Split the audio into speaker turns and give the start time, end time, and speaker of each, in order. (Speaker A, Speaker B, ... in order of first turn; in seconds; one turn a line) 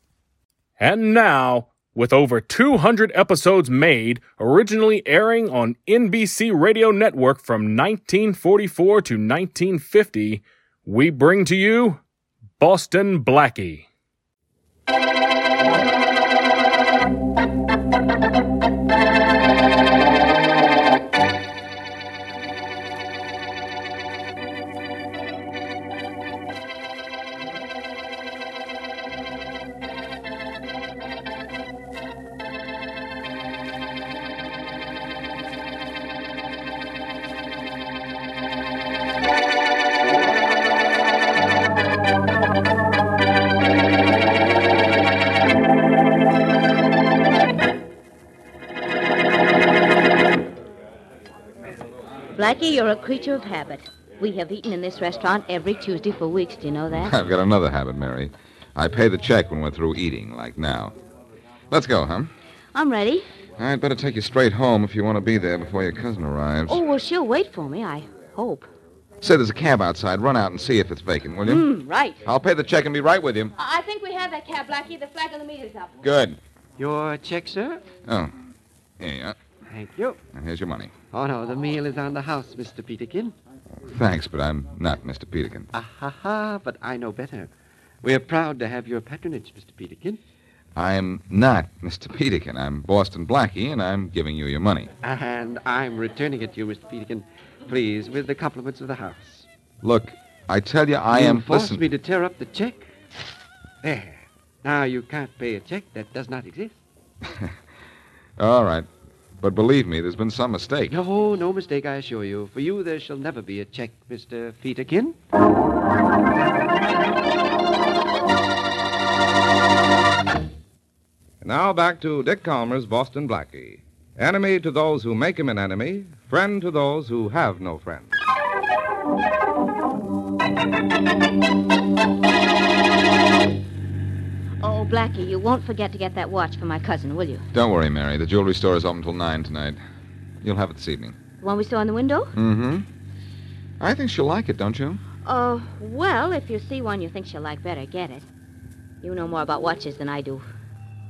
Speaker A: 0.8-12.0
Speaker A: 12.6-13.9
Speaker B: 52.4-57.1
Speaker C: 57.0-60.9
Speaker C: 61.7-62.3
Speaker B: 62.7-63.3
Speaker C: 63.6-66.8
Speaker B: 66.7-68.7
Speaker C: 69.2-71.7
Speaker B: 71.4-72.2
Speaker C: 72.2-73.5
Speaker B: 73.6-75.9
Speaker C: 76.0-76.4
Speaker D: 76.8-77.9
Speaker C: 78.0-78.3
Speaker C: 79.0-79.4
Speaker D: 79.7-80.2
Speaker C: 80.3-81.0
Speaker D: 81.1-83.3
Speaker C: 83.9-85.7
Speaker D: 85.7-87.5
Speaker D: 88.0-90.2
Speaker C: 90.8-94.9
Speaker D: 95.0-99.5
Speaker C: 99.8-101.8
Speaker D: 101.1-102.9
Speaker D: 103.8-106.8
Speaker C: 107.2-107.5
Speaker C: 108.4-108.9
Speaker C: 109.4-111.0
Speaker D: 110.9-115.2
Speaker E: 121.4-128.2
Speaker B: 134.6-137.4
Speaker C: 137.5-139.8
Speaker C: 140.4-141.2
Speaker B: 141.4-142.3
Speaker C: 142.3-142.9
Speaker C: 143.8-145.0
Speaker B: 145.2-148.3
Speaker B: 149.0-150.4